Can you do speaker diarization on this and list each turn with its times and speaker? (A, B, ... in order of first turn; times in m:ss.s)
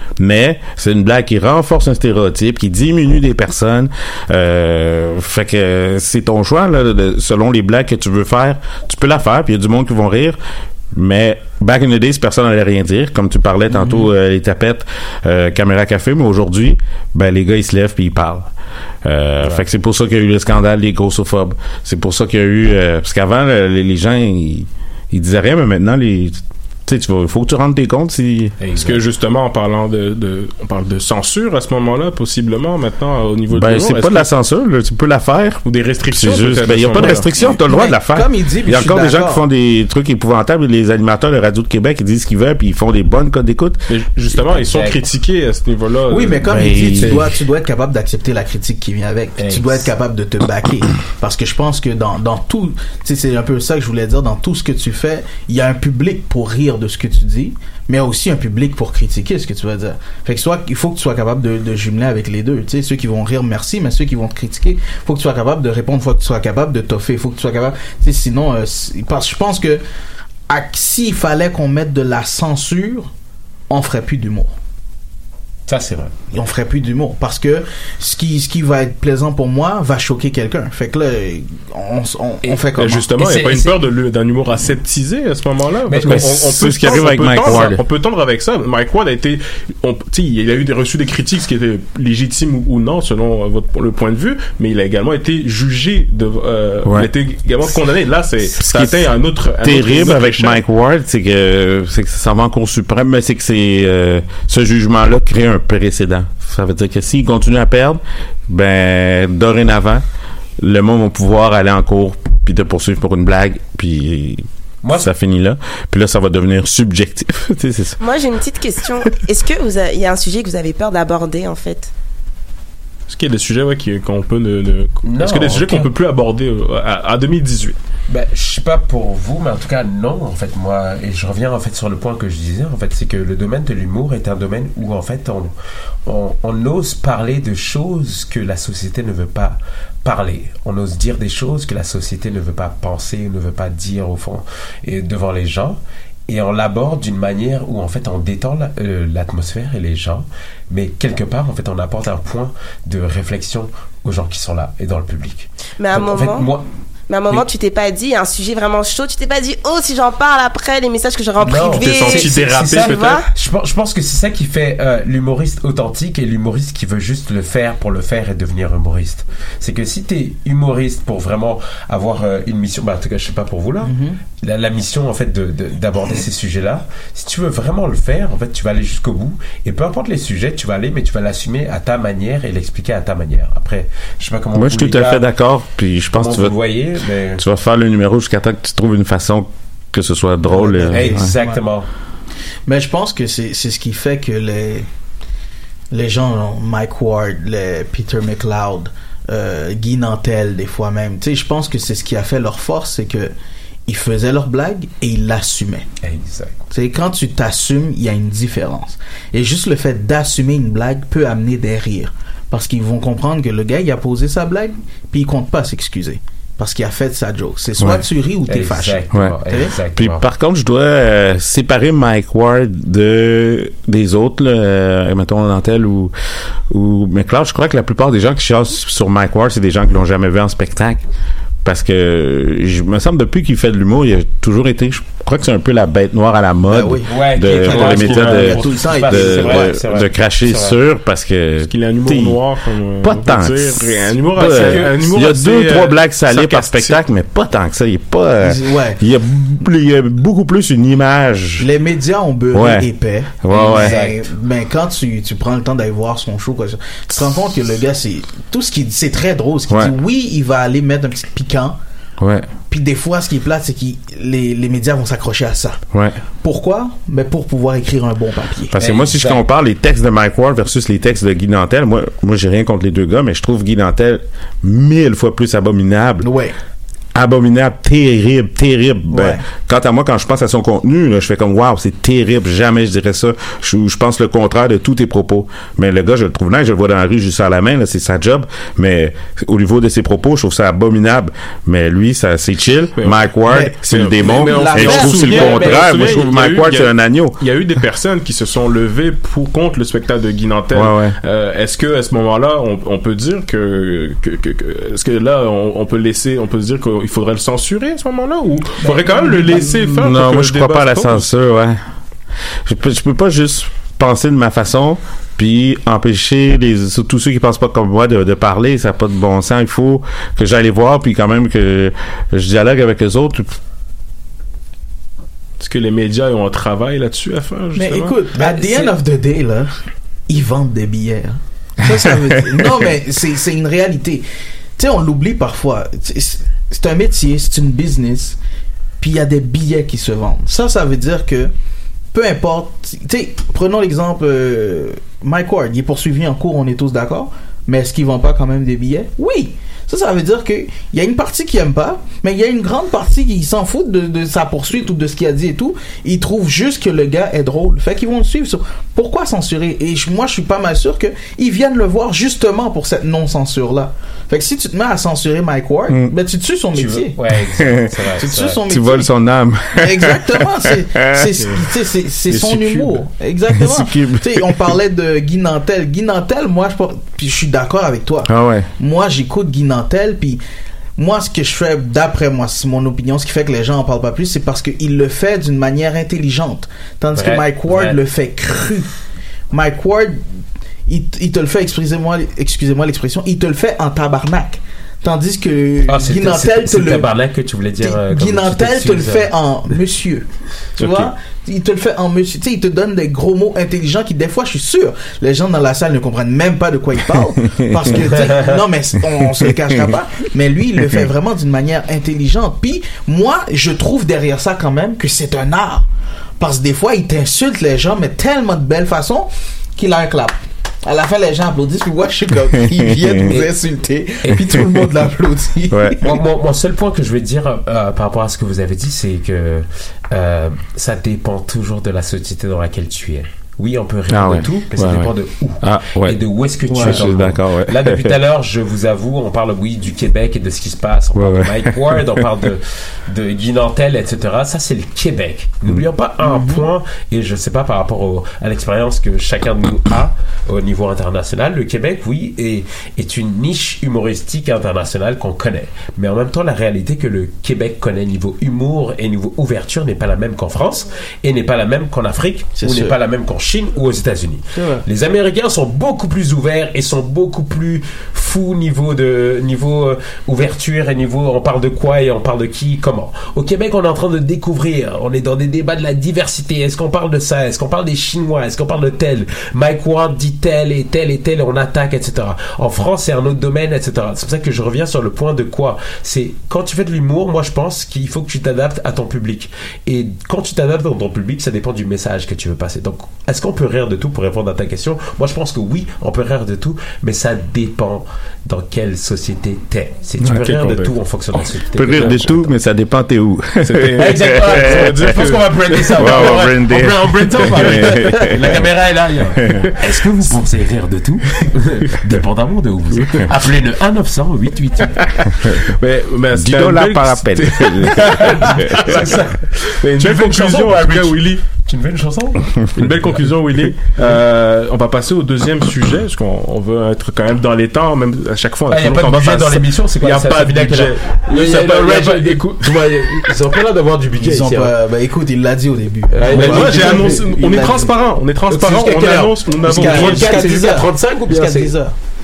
0:00.2-0:10.4 A
0:10.9-0:18.5 A
0:13.7-0:14.1 B
0:19.0-0:28.6 A
0:28.6-0:29.0 C
0:28.8-0:34.3 D
0:33.5-0:43.8 A
0:35.6-0:37.3 D
0:37.4-0:39.4 B
0:43.9-0:47.2 D
0:44.5-0:45.0 C
0:46.1-1:09.8 B
0:46.4-0:47.2 A
0:49.4-0:49.9 C
1:10.5-1:13.1 B
1:13.7-1:14.5 B
1:15.7-1:16.1 C
1:16.3-1:23.0 B
1:22.4-1:23.8 C
1:22.8-1:40.6 D
1:25.9-1:27.8 C
1:26.0-1:27.8 A
1:36.8-1:37.1 A
1:38.7-1:38.9 A
1:39.6-1:50.0 A
1:50.6-1:54.5 A
1:54.8-1:55.1 C
1:55.0-1:58.0 A
1:58.0-2:01.9 E
2:03.1-2:07.8 D
2:05.0-2:05.9 C
2:08.1-2:15.5 C
2:16.1-2:36.6 C
2:35.8-2:36.5 E
2:37.1-2:43.3 E
2:41.4-3:05.2 C
2:41.4-2:43.1 D
2:53.8-2:54.2 B
3:04.6-3:06.6 A
3:06.2-3:07.4 C
3:07.4-3:11.3 A
3:10.4-3:11.6 B
3:10.9-3:11.9 C
3:12.7-3:14.9 B
3:15.9-3:23.3 B
3:23.9-3:25.9 B
3:26.0-3:26.5 C
3:26.7-3:39.7 B
3:37.8-3:38.0 A
3:38.5-3:40.3 C
3:40.0-3:46.1 A
3:46.7-3:51.0 A
3:51.6-4:02.4 A
3:56.7-3:59.7 B
3:57.1-4:00.8 C
4:01.7-4:07.0 D
4:03.0-4:11.7 A
4:04.4-4:04.9 C
4:08.4-4:09.0 B
4:11.6-4:21.8 B
4:12.5-4:12.9 A
4:13.4-4:14.0 A
4:13.6-4:14.2 C
4:22.2-4:22.5 A
4:22.7-4:25.8 B
4:25.9-4:26.2 A
4:26.4-4:28.8 B
4:28.7-4:36.3 A
4:28.8-4:29.4 C
4:36.2-4:36.5 B
4:37.2-4:57.4 A
4:39.1-4:39.4 B
4:53.0-4:53.2 D
4:53.5-4:56.3 B
4:53.8-5:11.3 D
5:00.7-5:01.2 A
5:08.8-5:10.0 B
5:10.0-5:11.8 A
5:12.6-5:23.5 A
5:25.6-5:28.2 D
5:27.8-5:29.7 B
5:28.3-5:29.0 C
5:30.3-5:34.2 B
5:34.8-5:38.4 B
5:39.0-5:41.5 B
5:42.1-6:07.2 B
6:05.9-6:06.1 A
6:06.7-6:08.6 C
6:07.6-6:08.1 A
6:08.2-6:09.1 B
6:08.6-6:10.4 A
6:09.8-6:20.4 B
6:11.4-6:11.7 D
6:12.3-6:13.0 D
6:13.6-6:14.6 A
6:18.3-6:18.7 A
6:21.0-6:28.9 B
6:27.1-6:28.0 C
6:29.5-6:30.2 B
6:30.9-6:37.1 B
6:35.9-6:39.3 C
6:37.8-6:40.3 B
6:40.8-6:55.8 B
6:48.0-6:48.6 C
6:56.4-7:06.2 B
7:02.7-7:03.3 A
7:04.2-7:04.5 C
7:04.3-7:04.9 A
7:05.7-7:06.0 A
7:06.0-8:22.6 C
7:14.1-7:18.2 A
7:16.7-7:17.1 B
7:21.2-7:22.3 A
7:26.2-7:26.7 B
7:42.6-7:43.0 B
7:44.6-7:44.8 B
8:20.2-8:20.9 D
8:21.8-8:25.1 A
8:23.6-8:26.4 D
8:24.0-8:35.5 C
8:25.9-8:28.6 A
8:32.9-8:33.3 D
8:35.0-8:41.4 D
8:36.3-8:39.0 A
8:38.0-8:42.6 C
8:42.8-8:53.3 D
8:48.7-8:54.7 C
8:54.2-8:57.9 B
8:56.1-8:57.3 C
8:56.3-9:00.6 D
8:58.5-9:01.8 C
8:59.7-9:01.9 B